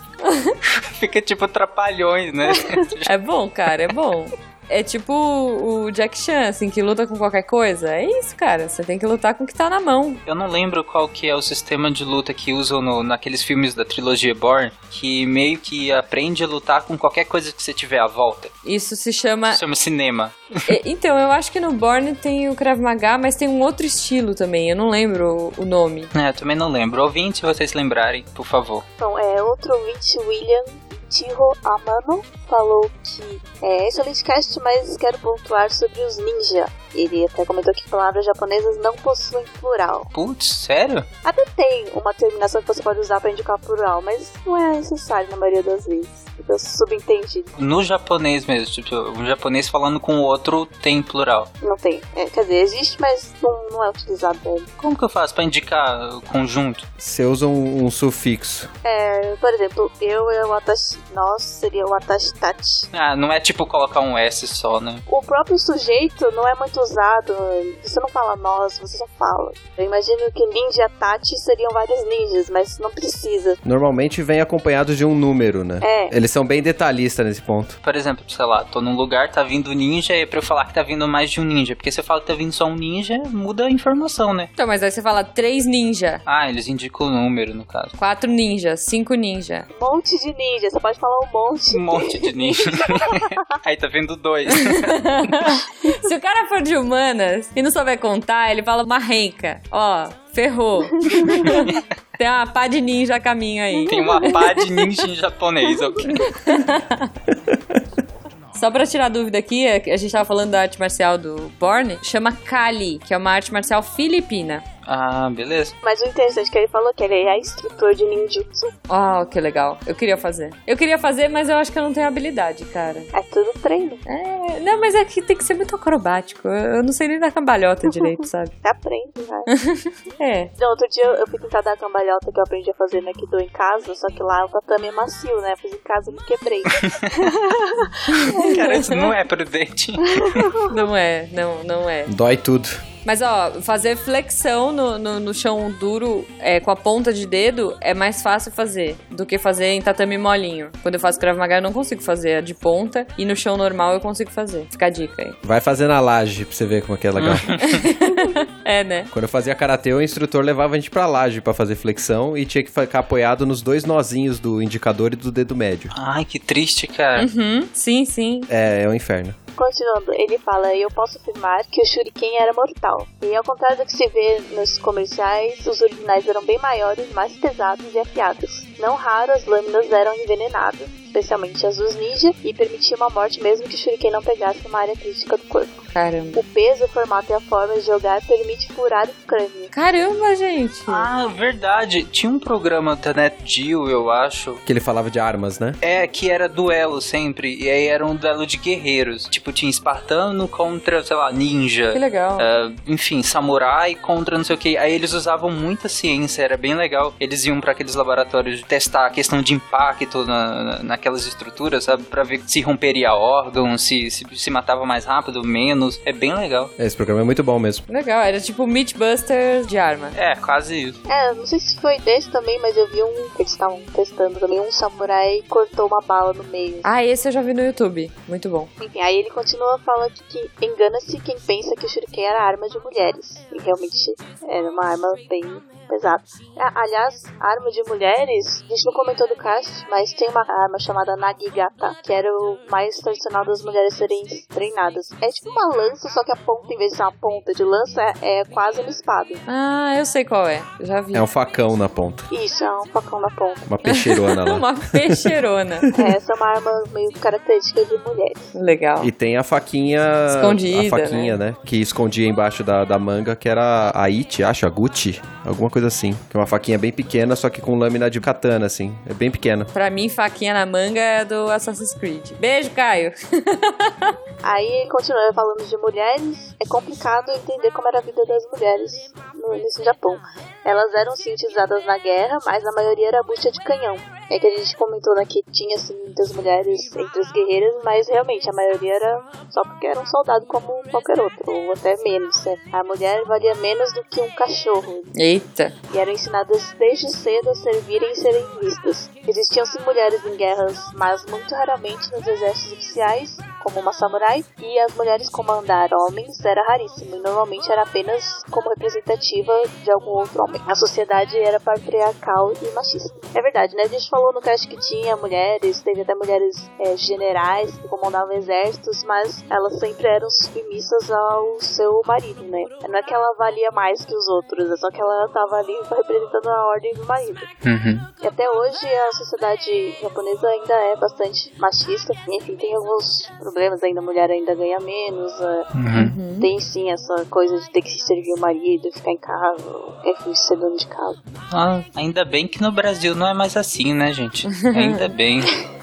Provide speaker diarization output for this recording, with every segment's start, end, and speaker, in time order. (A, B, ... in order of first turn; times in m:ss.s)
0:00.2-0:00.6 A
0:00.7-0:03.1 B
0:03.1-0:10.2 A
0:10.2-0:18.5 B
0:18.6-0:19.6 A
0:19.5-0:20.6 B
0:20.7-0:26.1 A
0:26.1-0:28.8 B
0:29.0-0:40.1 C
0:40.1-0:41.1 B
0:41.2-0:47.5 C
0:47.6-0:51.5 B
0:51.6-0:54.7 C
0:54.8-0:56.9 B
0:57.0-0:58.7 D
0:58.8-1:02.9 C
1:02.9-1:05.0 B
1:05.1-1:13.6 C
1:13.6-1:17.8 D
1:15.8-1:16.1 C
1:17.8-1:24.5 B
1:24.6-1:26.2 A
1:26.2-1:28.0 B
1:28.0-1:29.7 A
1:29.7-1:33.4 C
1:31.7-1:35.5 B
1:34.5-1:44.7 A
1:41.1-1:41.6 C
1:43.9-1:46.2 B
1:46.1-1:47.1 A
1:48.5-1:54.6 A
1:54.9-1:55.8 B
1:55.8-1:58.7 C
1:58.9-2:03.1 A
2:03.1-2:04.0 C
2:04.1-2:08.5 A
2:08.6-2:09.5 C
2:09.6-2:10.5 A
2:10.6-2:18.6 C
2:18.1-2:18.8 A
2:18.3-2:20.5 B
2:20.2-2:20.7 C
2:20.7-2:22.1 A
2:22.1-2:22.8 D
2:23.0-2:35.4 A
2:35.4-2:37.6 D
2:37.2-2:37.8 B
2:37.6-2:39.1 A
2:39.1-2:45.9 D
2:45.9-2:47.3 B
2:47.2-2:48.5 A
2:48.5-2:49.4 D
2:49.6-3:09.7 C
3:05.9-3:06.4 A
3:09.7-3:11.1 A
3:10.9-3:14.6 B
3:14.6-3:15.8 D
3:15.8-3:36.7 B
3:21.9-3:22.5 A
3:36.8-3:37.8 D
3:37.9-3:40.2 A
3:40.1-3:41.0 B
3:41.1-3:46.9 C
3:46.8-3:48.7 A
3:48.8-4:09.4 C
4:09.5-4:11.2 A
4:11.1-4:12.3 D
4:12.3-4:13.6 C
4:13.6-4:15.3 D
4:13.9-4:15.9 A
4:15.9-4:18.6 C
4:18.6-4:19.1 A
4:19.0-4:29.7 D
4:20.3-4:21.4 A
4:29.7-4:34.1 A
4:34.4-4:55.1 C
4:55.1-4:55.7 A
4:55.9-5:27.5 C
5:27.6-5:28.1 B
5:28.2-5:35.7 C
5:35.7-5:36.1 B
5:35.9-5:36.5 A
5:36.4-5:41.2 C
5:41.5-5:45.6 B
5:44.5-5:45.1 A